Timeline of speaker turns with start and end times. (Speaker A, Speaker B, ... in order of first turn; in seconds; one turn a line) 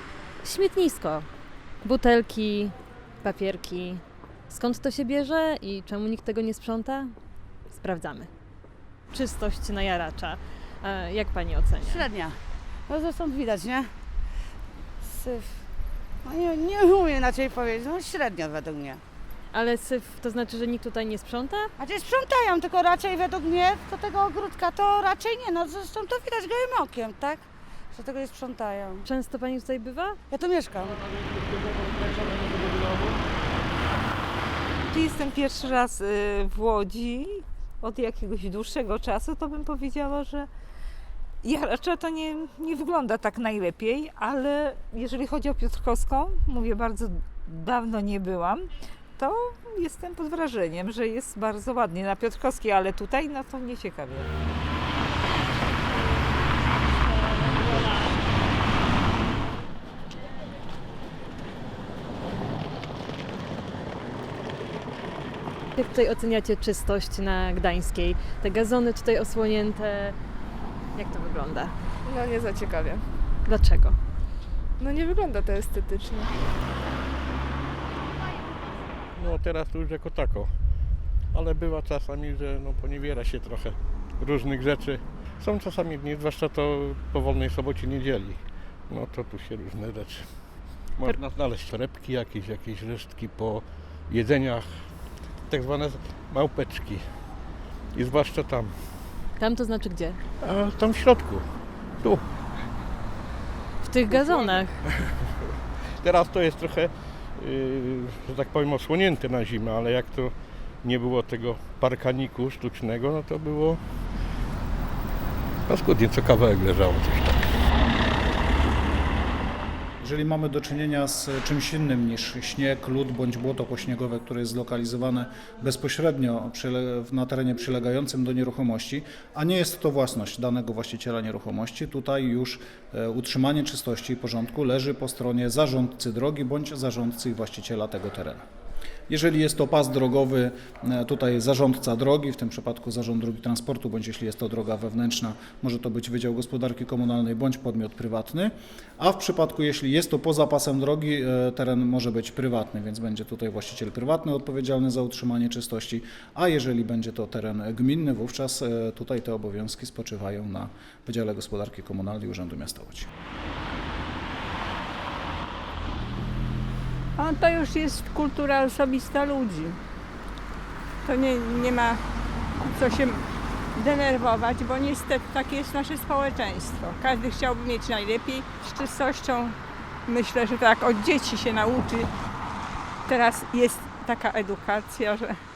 Speaker A: 0.4-1.3
Speaker A: 1.8-7.1
Speaker A: 7.7-8.3
Speaker A: 9.1-12.1
Speaker B: 11.8-12.4
Speaker B: 12.9-13.9
Speaker B: 15.0-15.6
Speaker B: 16.2-19.0
Speaker A: 19.5-21.7
Speaker B: 21.8-29.0
Speaker A: 29.1-30.2
Speaker B: 30.3-31.0
Speaker C: 34.9-40.5
Speaker C: 41.4-54.3
Speaker A: 65.8-70.1
Speaker A: 70.9-71.7
Speaker D: 72.0-73.1
Speaker A: 73.5-74.0
Speaker D: 74.8-76.3
Speaker E: 79.2-80.5
Speaker E: 81.3-97.0
Speaker E: 97.9-99.2
Speaker A: 99.4-100.2
Speaker E: 100.4-101.5
Speaker A: 103.8-104.8
Speaker E: 104.1-110.3
Speaker E: 110.8-113.8
Speaker E: 115.7-117.6
Speaker F: 120.0-138.4
Speaker F: 139.1-163.1
Speaker G: 167.2-169.8
Speaker G: 171.0-172.0
Speaker G: 172.6-182.1
Speaker G: 183.1-185.4